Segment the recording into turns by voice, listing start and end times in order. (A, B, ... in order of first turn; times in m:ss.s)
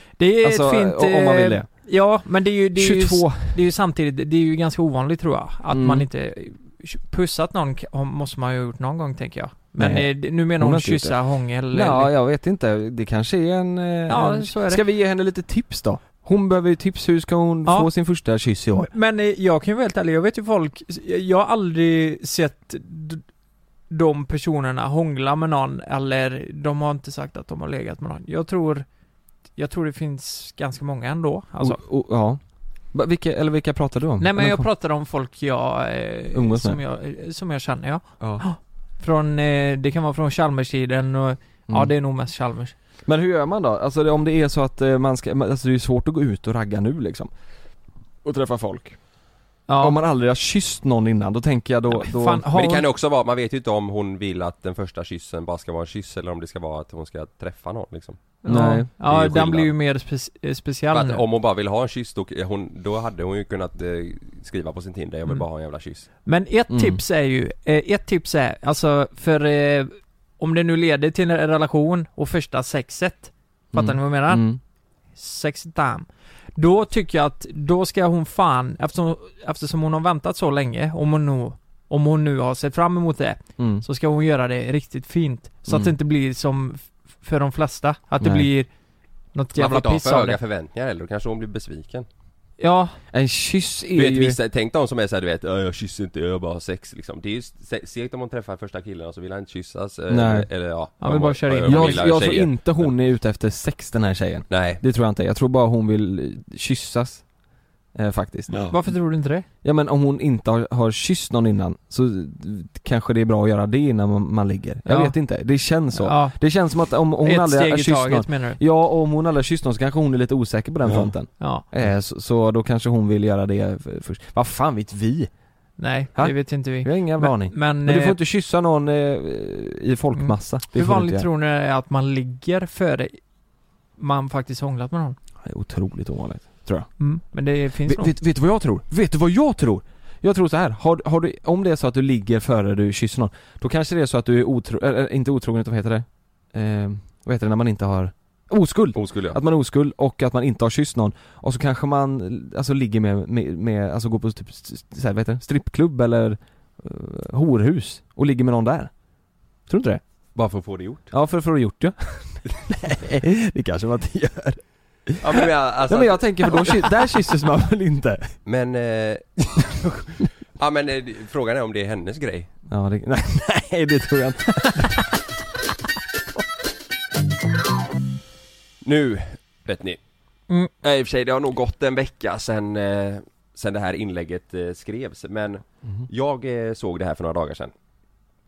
0:00.2-0:12.1 A
0:00.4-0:01.7 B
0:02.8-0:03.6 B
0:05.7-0:06.1 B
0:09.8-0:11.2 B
0:11.7-0:18.9 B
0:14.1-0:14.8 A
0:18.7-0:23.2 A
0:23.9-0:28.9 A
0:29.6-0:31.8 A
0:31.6-0:32.4 B
0:32.9-0:34.7 B
0:34.2-0:42.8 A
0:36.3-0:36.8 B
0:43.0-0:47.3 B
0:48.2-0:49.0 B
0:49.7-0:50.0 A
0:49.8-0:52.5 B
0:52.0-0:52.8 A
0:52.5-0:58.2 C
0:58.4-1:01.2 A
0:58.5-0:58.9 B
0:59.0-0:59.7 C
1:00.9-1:06.1 C
1:06.3-1:14.5 A
1:06.7-1:07.0 B
1:13.7-1:14.6 B
1:15.2-1:28.7 A
1:23.6-1:23.8 B
1:25.7-1:25.9 B
1:28.2-1:28.5 B
1:29.3-1:30.4 A
1:29.6-1:32.1 C
1:32.6-1:33.0 A
1:33.1-1:34.4 B
1:34.0-1:42.9 C
1:40.1-1:40.5 B
1:41.0-1:42.2 A
1:41.7-1:47.2 B
1:44.5-1:44.8 C
1:48.0-1:48.6 B
1:48.5-1:48.8 C
1:48.7-1:49.5 A
1:49.6-2:05.3 B
1:54.9-1:55.2 A
1:56.0-1:56.4 A
1:57.2-1:58.6 A
2:01.4-2:01.6 A
2:05.8-2:08.2 A
2:06.2-2:11.3 B
2:10.2-2:13.2 A
2:14.0-2:15.2 A
2:15.4-2:16.9 B
2:17.0-2:18.1 A
2:17.8-2:38.9 B
2:29.0-2:29.4 C
2:39.7-2:40.0 B
2:40.4-2:41.1 C
2:41.1-2:48.4 B
2:45.2-2:47.0 C
2:48.5-2:52.5 C
2:52.7-2:54.9 B
2:58.8-3:00.0 C
3:00.8-3:07.7 C